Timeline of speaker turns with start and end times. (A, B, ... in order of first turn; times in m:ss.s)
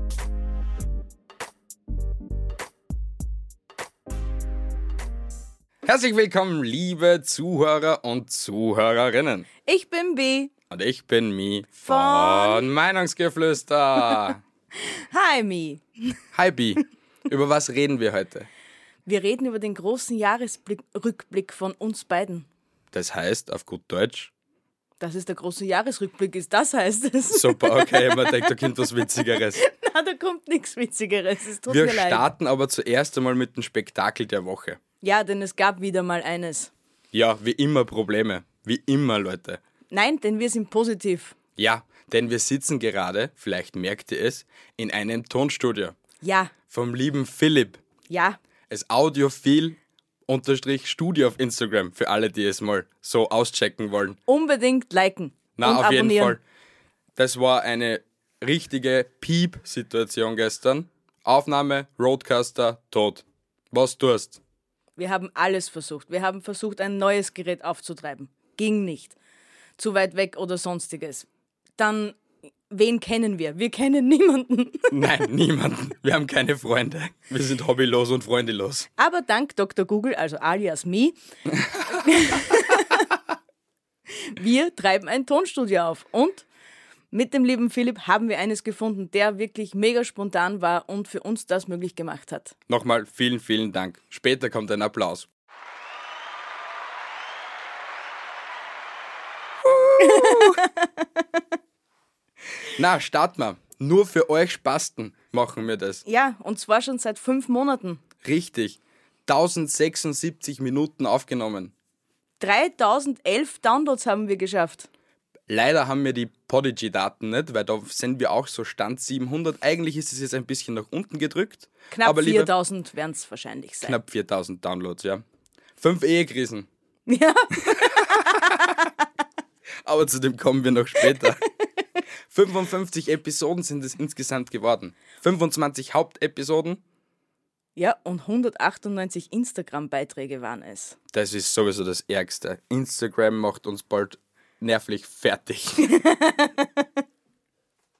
0:05.8-0:09.5 A
0:09.7-0:10.5 B
0:10.7-0:14.4 A
0:11.9-0:12.7 B
0:14.8-0:16.2 B
0:16.3-0:18.5 A
0:19.1-0:22.5 B
0:22.9-0:24.3 A
0:25.0-0:32.3 B
0:27.3-0:29.6 A
0:31.7-0:34.8 A
0:35.0-0:36.7 B
0:37.1-0:39.6 A
0:39.9-0:41.4 B
0:41.6-0:46.0 A
0:46.2-0:46.5 B
0:46.7-0:47.8 A
0:48.1-0:48.4 B
0:48.7-0:54.2 A
0:54.3-0:56.4 B
0:55.6-0:56.4 A
0:57.2-1:04.4 A
1:05.0-1:09.2 B
1:09.8-1:12.2 B
1:12.7-1:15.0 B
1:14.9-1:18.9 A
1:19.0-1:21.2 B
1:21.9-1:23.0 B
1:24.1-1:26.5 B
1:27.1-1:32.6 B
1:32.7-1:35.3 A
1:39.6-1:40.6 A
1:40.0-1:41.0 B
1:42.6-1:46.0 A
1:46.1-1:48.0 B
1:48.2-1:51.7 A
1:52.4-1:54.9 B
1:55.5-2:02.5 A
2:01.9-2:04.0 B
2:03.8-2:05.2 A
2:05.8-2:06.7 A
2:07.1-2:08.8 B
2:07.7-2:08.2 A
2:09.8-2:11.4 A
2:12.3-2:16.8 A
2:17.8-2:21.0 B
2:21.1-2:26.0 A
2:25.8-2:26.9 B